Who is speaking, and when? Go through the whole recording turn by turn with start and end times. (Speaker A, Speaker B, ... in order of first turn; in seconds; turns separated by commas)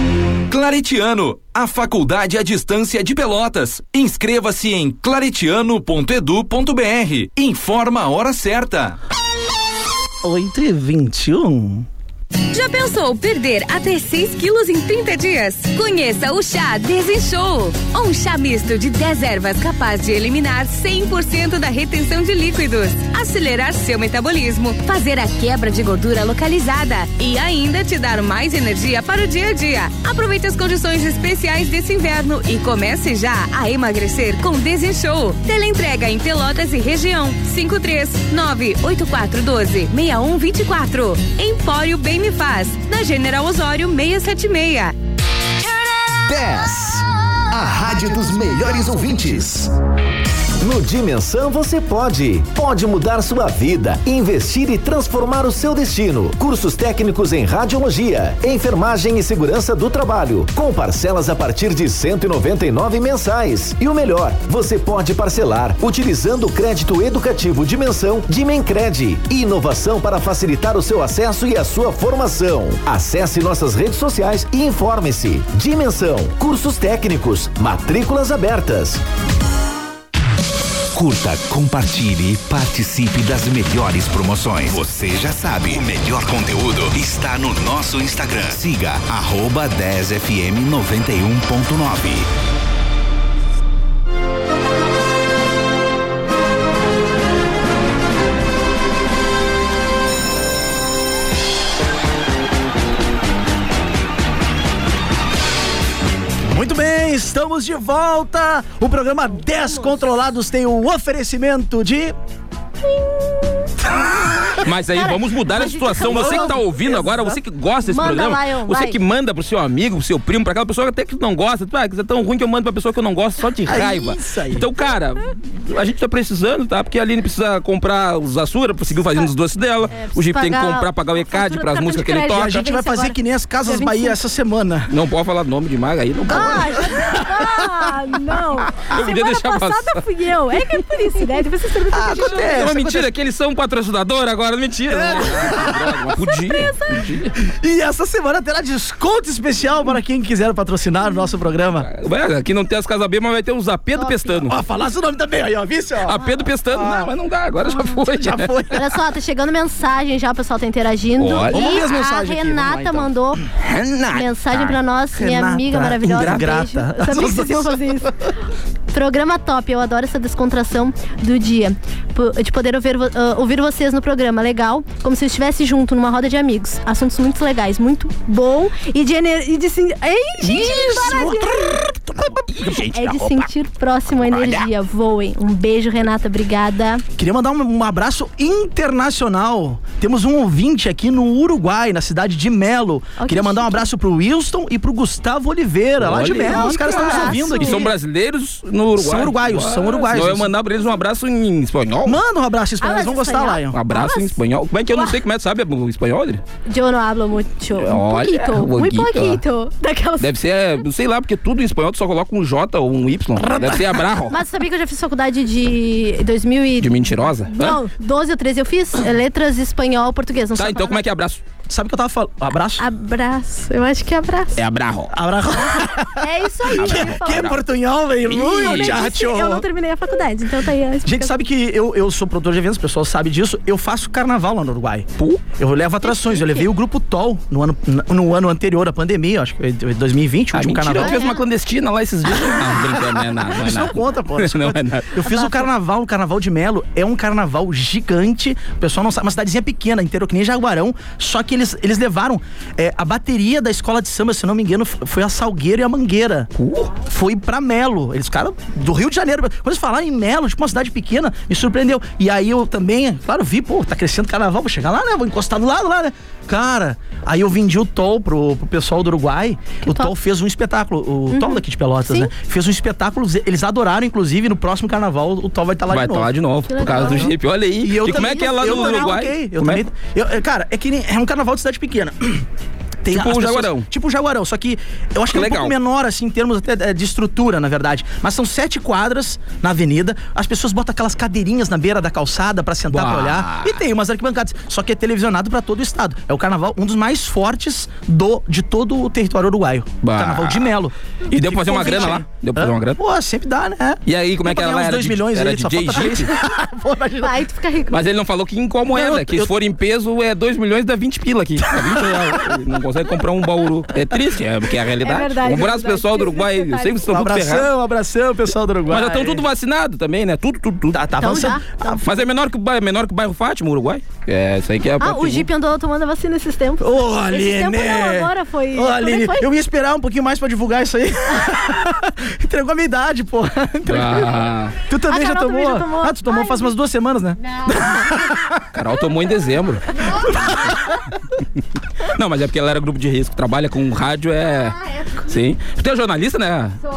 Speaker A: 0.5-9.0, Speaker B: 10.2-11.9, Speaker C: 12.5-45.0, Speaker D: 46.1-49.7, Speaker D: 50.6-79.0, Speaker E: 80.9-92.3, Speaker B: 106.5-112.2, Speaker F: 109.7-110.0, Speaker F: 113.0-113.7, Speaker G: 113.9-132.5, Speaker F: 114.9-116.6, Speaker B: 116.0-117.4, Speaker F: 117.9-119.0, Speaker B: 123.7-124.7, Speaker F: 129.9-134.2, Speaker B: 132.3-135.0, Speaker G: 134.9-137.2, Speaker B: 136.3-137.1, Speaker F: 136.3-142.6, Speaker G: 138.8-140.0, Speaker B: 141.9-143.1, Speaker G: 142.2-147.3, Speaker B: 144.9-146.0, Speaker F: 146.2-147.1, Speaker B: 147.4-151.9, Speaker G: 151.9-154.6, Speaker F: 154.0-154.3, Speaker B: 154.4-157.1, Speaker G: 156.1-158.5, Speaker B: 158.1-158.9, Speaker F: 158.7-163.4, Speaker G: 161.2-161.6, Speaker B: 161.5-163.1, Speaker G: 163.5-164.8, Speaker F: 164.1-168.2, Speaker B: 165.1-168.1, Speaker G: 166.0-166.6, Speaker F: 168.9-181.8, Speaker B: 180.4-182.4, Speaker G: 180.8-181.3, Speaker G: 182.3-183.5, Speaker F: 182.9-187.0, Speaker G: 184.1-184.7, Speaker B: 187.2-197.9, Speaker F: 193.2-193.8, Speaker G: 196.0-202.2, Speaker F: 196.5-197.9, Speaker B: 199.0-200.5, Speaker B: 202.1-203.8, Speaker F: 202.8-204.4, Speaker G: 203.7-206.4, Speaker F: 206.7-210.3, Speaker G: 207.8-209.4, Speaker G: 210.2-214.4, Speaker B: 213.5-214.0, Speaker F: 214.3-221.0, Speaker G: 216.8-217.8, Speaker G: 220.6-221.4, Speaker B: 221.7-222.9, Speaker F: 222.8-224.6, Speaker G: 224.6-225.2, Speaker B: 225.1-229.7, Speaker F: 226.2-227.5, Speaker G: 226.7-227.6, Speaker G: 228.2-229.0, Speaker F: 228.3-231.3, Speaker B: 231.1-241.3, Speaker F: 236.0-236.7, Speaker G: 240.5-245.2, Speaker F: 241.0-241.4, Speaker B: 242.7-276.3, Speaker F: 245.3-245.7, Speaker G: 256.6-256.9, Speaker F: 269.9-270.1, Speaker F: 271.3-272.3, Speaker G: 275.9-279.8, Speaker F: 276.7-277.3, Speaker B: 276.8-282.5, Speaker F: 278.0-279.2, Speaker B: 283.0-307.4, Speaker G: 283.1-283.9, Speaker G: 285.3-285.7, Speaker G: 292.9-293.8, Speaker G: 300.0-300.8, Speaker G: 301.3-303.0, Speaker F: 301.8-302.1, Speaker G: 304.1-306.3, Speaker F: 307.2-308.0, Speaker G: 307.9-317.7, Speaker B: 308.9-309.5, Speaker B: 311.8-312.4, Speaker F: 315.0-317.1, Speaker B: 317.1-319.4, Speaker G: 318.9-321.0, Speaker B: 320.9-322.1, Speaker F: 321.2-322.0, Speaker G: 322.0-325.5, Speaker F: 325.0-329.5, Speaker B: 326.8-338.6, Speaker G: 333.9-334.8, Speaker F: 335.1-336.7, Speaker G: 338.7-341.0, Speaker G: 342.0-346.8